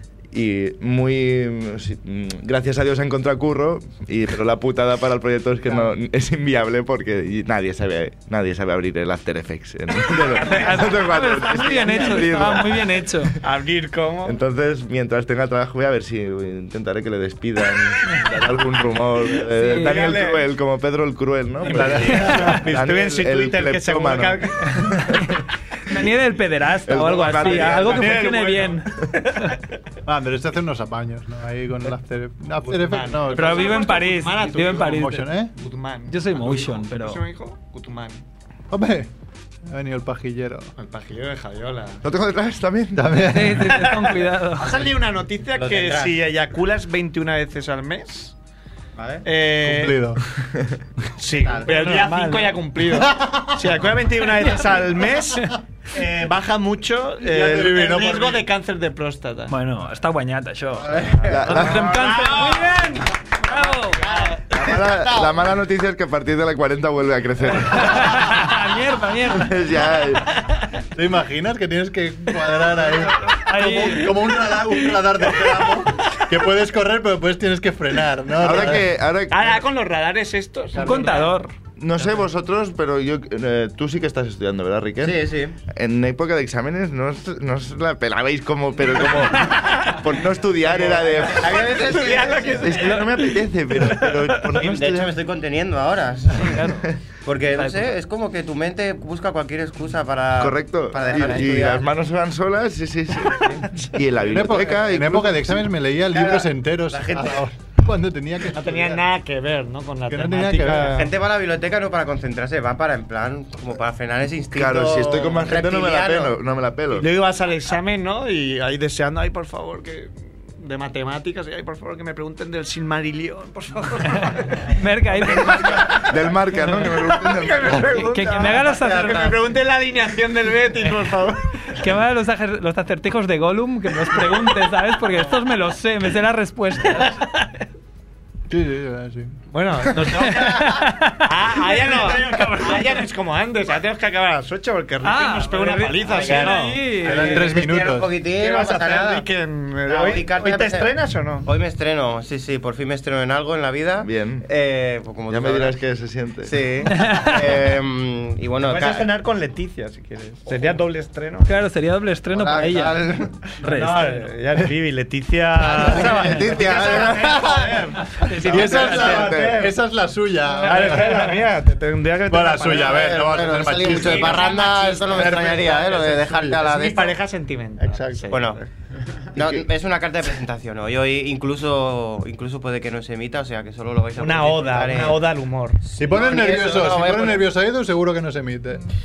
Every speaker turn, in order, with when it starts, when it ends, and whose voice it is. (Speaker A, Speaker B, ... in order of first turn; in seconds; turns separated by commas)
Speaker A: 0.3-13.0, Speaker B: 10.3-11.0, Speaker C: 10.3-13.4, Speaker B: 11.8-12.4, Speaker B: 13.4-14.4, Speaker A: 14.2-25.2, Speaker B: 19.4-20.5, Speaker C: 19.7-20.0, Speaker B: 21.6-24.7, Speaker D: 21.6-22.6, Speaker C: 22.0-22.6, Speaker C: 24.7-29.6, Speaker A: 26.9-28.1, Speaker B: 27.2-29.7, Speaker D: 30.1-33.8, Speaker B: 32.5-35.0, Speaker C: 33.3-35.3, Speaker D: 34.8-35.5, Speaker B: 35.5-38.2, Speaker C: 36.1-37.2, Speaker D: 38.7-39.1, Speaker D: 39.6-40.7, Speaker B: 40.8-42.0, Speaker A: 42.0-43.2, Speaker D: 42.9-43.8, Speaker C: 43.3-44.7, Speaker B: 43.6-48.3, Speaker E: 45.5-46.1, Speaker E: 49.0-49.2, Speaker B: 49.2-50.1, Speaker D: 49.6-50.2, Speaker B: 51.1-59.5, Speaker C: 51.6-52.6, Speaker D: 52.9-53.6, Speaker D: 57.2-58.4, Speaker C: 59.5-64.3, Speaker B: 60.9-65.6, Speaker A: 61.3-62.1, Speaker A: 64.5-68.5, Speaker C: 67.7-69.6, Speaker A: 69.3-70.4, Speaker D: 70.9-78.9, Speaker C: 73.2-74.8, Speaker A: 78.4-79.6, Speaker B: 78.5-81.3, Speaker C: 80.8-81.5, Speaker D: 80.8-81.1, Speaker A: 81.8-91.6, Speaker E: 85.0-85.6, Speaker B: 89.5-90.0, Speaker E: 90.6-92.7, Speaker B: 90.8-94.7, Speaker A: 92.6-95.2, Speaker E: 94.6-96.7, Speaker C: 96.3-96.9, Speaker E: 97.2-101.9, Speaker C: 97.6-97.8, Speaker A: 100.4-105.6, Speaker D: 104.2-108.8, Speaker E: 106.1-107.5, Speaker B: 108.5-111.1, Speaker D: 110.1-111.0, Speaker E: 110.8-116.4, Speaker A: 114.5-117.1, Speaker B: 116.9-131.8, Speaker C: 124.1-125.7, Speaker A: 125.9-127.9, Speaker C: 127.9-129.3, Speaker C: 131.7-137.2, Speaker B: 134.1-134.7, Speaker D: 138.5-139.4, Speaker B: 139.5-147.6, Speaker C: 140.2-141.3, Speaker E: 141.9-143.0, Speaker C: 145.0-147.5, Speaker E: 146.1-149.3, Speaker D: 147.0-148.1, Speaker B: 148.3-151.5, Speaker E: 149.8-155.8, Speaker A: 154.0-154.5, Speaker A: 155.3-156.6, Speaker E: 156.4-159.1, Speaker C: 156.9-157.4, Speaker B: 158.6-161.5, Speaker E: 160.5-160.8, Speaker C: 161.4-164.3, Speaker E: 162.3-163.5, Speaker B: 163.6-169.8, Speaker E: 165.6-168.0, Speaker D: 167.1-167.8, Speaker C: 168.1-169.3, Speaker D: 168.4-171.2, Speaker A: 168.5-169.7, Speaker B: 170.6-178.7, Speaker D: 172.3-176.6, Speaker E: 172.7-177.2, Speaker E: 178.2-178.6, Speaker E: 179.3-185.2, Speaker B: 184.1-185.8, Speaker E: 185.8-187.5, Speaker D: 185.9-188.9